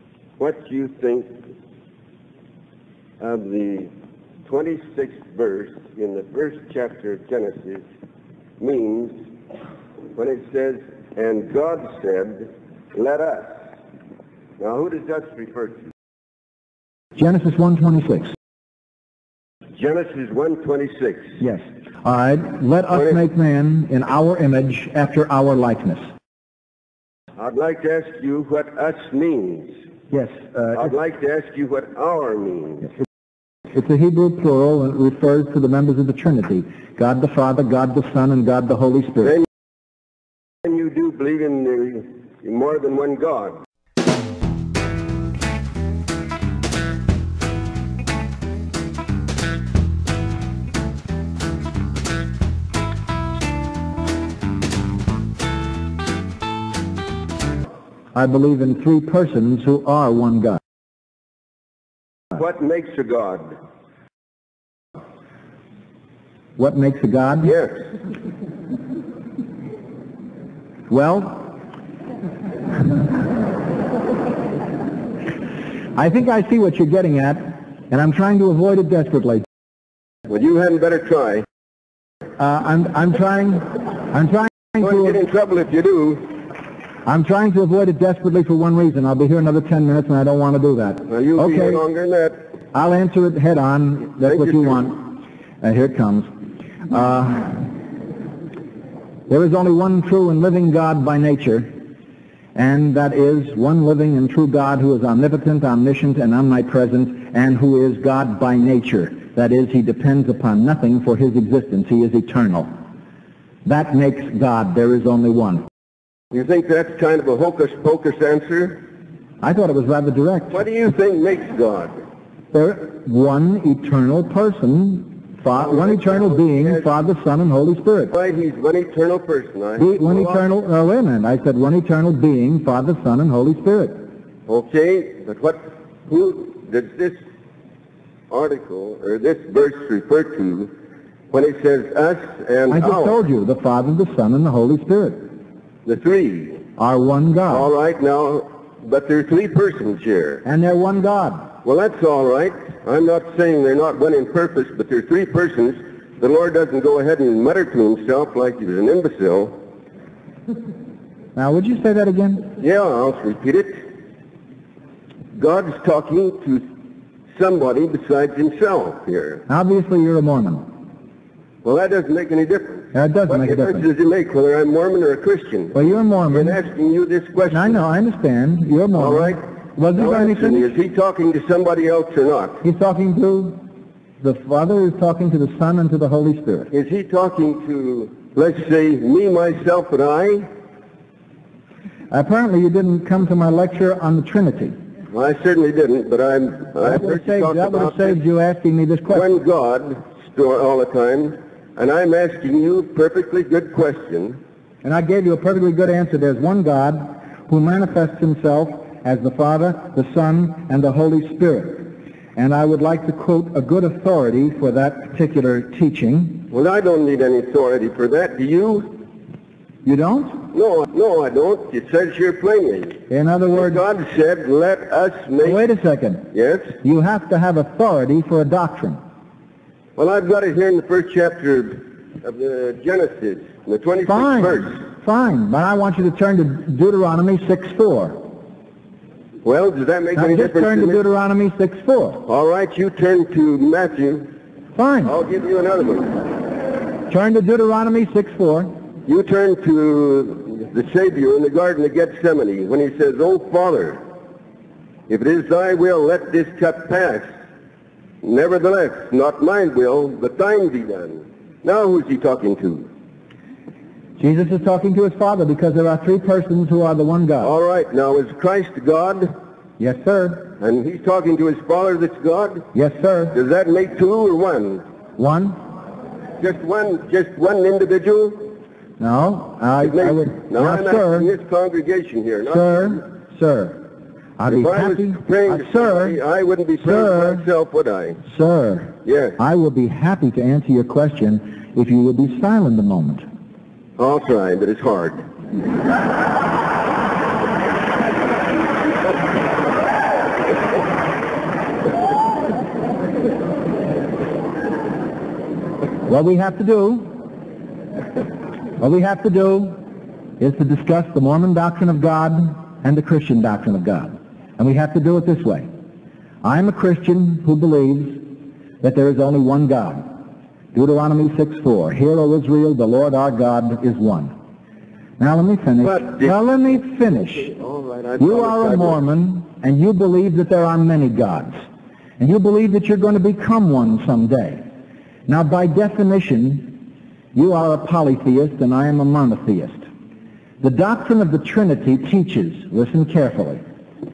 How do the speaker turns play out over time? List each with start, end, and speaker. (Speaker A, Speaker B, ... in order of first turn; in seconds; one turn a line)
Speaker A: 0.4-1.3
Speaker A: 3.2-3.9
Speaker A: 4.5-7.8
Speaker A: 8.6-9.2
Speaker A: 10.1-13.7
Speaker A: 14.6-15.9
Speaker B: 17.2-18.3
Speaker A: 19.8-21.4
Speaker B: 22.0-26.0
Speaker A: 22.9-23.2
Speaker A: 27.4-29.8
Speaker A: 30.7-32.9
Speaker B: 33.7-39.4
Speaker A: 40.6-43.6
Speaker B: 58.1-60.6
Speaker A: 62.3-63.6
Speaker B: 66.6-67.5
Speaker A: 67.4-67.8
Speaker B: 70.9-71.5
Speaker B: 76.0-79.4
Speaker A: 80.3-81.4
Speaker B: 82.4-85.2
Speaker A: 84.8-86.3
Speaker B: 87.0-91.8
Speaker A: 91.1-92.4
Speaker B: 92.7-96.3
Speaker A: 94.2-94.8
Speaker B: 96.9-97.7
Speaker B: 99.3-101.7
Speaker B: 102.5-112.7
Speaker B: 113.6-115.6
Speaker A: 116.3-118.8
Speaker B: 119.4-120.6
Speaker A: 120.5-121.9
Speaker B: 122.5-128.1
Speaker A: 125.5-126.9
Speaker A: 128.1-130.4
Speaker B: 129.8-134.0
Speaker A: 134.5-137.2
Speaker A: 138.3-140.7
Speaker A: 141.3-143.2
Speaker B: 142.7-145.3
Speaker A: 145.8-146.6
Speaker B: 146.8-147.7
Speaker A: 147.5-150.4
Speaker B: 150.4-151.5
Speaker A: 151.6-159.5
Speaker B: 161.3-162.5
Speaker A: 162.6-163.8
Speaker A: 165.3-166.6
Speaker A: 167.3-169.4
Speaker B: 169.5-170.7
Speaker A: 171.6-177.8
Speaker B: 172.9-173.8
Speaker B: 175.7-176.6
Speaker B: 177.5-180.7
Speaker A: 178.9-179.4
Speaker A: 179.9-182.6
Speaker B: 182.6-183.6
Speaker B: 184.2-186.7
Speaker A: 186.7-190.5
Speaker B: 192.1-194.7
Speaker A: 195.1-198.2
Speaker B: 196.8-199.3
Speaker A: 199.1-204.4
Speaker B: 204.8-216.5
Speaker A: 216.5-218.9
Speaker B: 219.8-220.4
Speaker A: 220.5-223.0
Speaker B: 223.1-223.8
Speaker A: 223.5-225.6
Speaker B: 225.4-226.3
Speaker A: 226.3-226.7
Speaker B: 226.8-229.0
Speaker A: 229.9-234.8
Speaker B: 234.1-238.2
Speaker A: 239.4-241.0
Speaker B: 240.2-242.2
Speaker A: 242.2-244.3
Speaker B: 244.8-245.1
Speaker A: 245.0-246.2
Speaker B: 247.1-248.7
Speaker A: 249.1-254.0
Speaker A: 255.1-257.3
Speaker A: 258.2-262.9
Speaker B: 264.2-267.5
Speaker A: 267.4-269.3
Speaker B: 269.8-270.5
Speaker A: 270.6-272.6
Speaker B: 272.7-273.4
Speaker A: 273.3-274.8
Speaker B: 275.2-275.6
Speaker A: 276.4-278.5
Speaker B: 279.0-281.3
Speaker A: 279.8-283.0
Speaker B: 282.4-283.8
Speaker B: 284.4-286.2
Speaker A: 284.5-288.2
Speaker B: 286.8-287.4
Speaker B: 288.3-293.2
Speaker A: 289.0-289.4
Speaker A: 294.0-295.3
Speaker B: 306.0-307.1
Speaker B: 308.8-309.8
Speaker B: 310.4-315.6
Speaker B: 316.4-318.2
Speaker B: 318.8-320.1
Speaker B: 320.7-324.3
Speaker B: 325.2-327.5
Speaker A: 325.8-326.4
Speaker A: 327.1-329.0
Speaker B: 328.2-331.5
Speaker B: 332.2-334.6
Speaker B: 335.3-336.8
Speaker B: 337.3-339.8
Speaker B: 340.6-343.6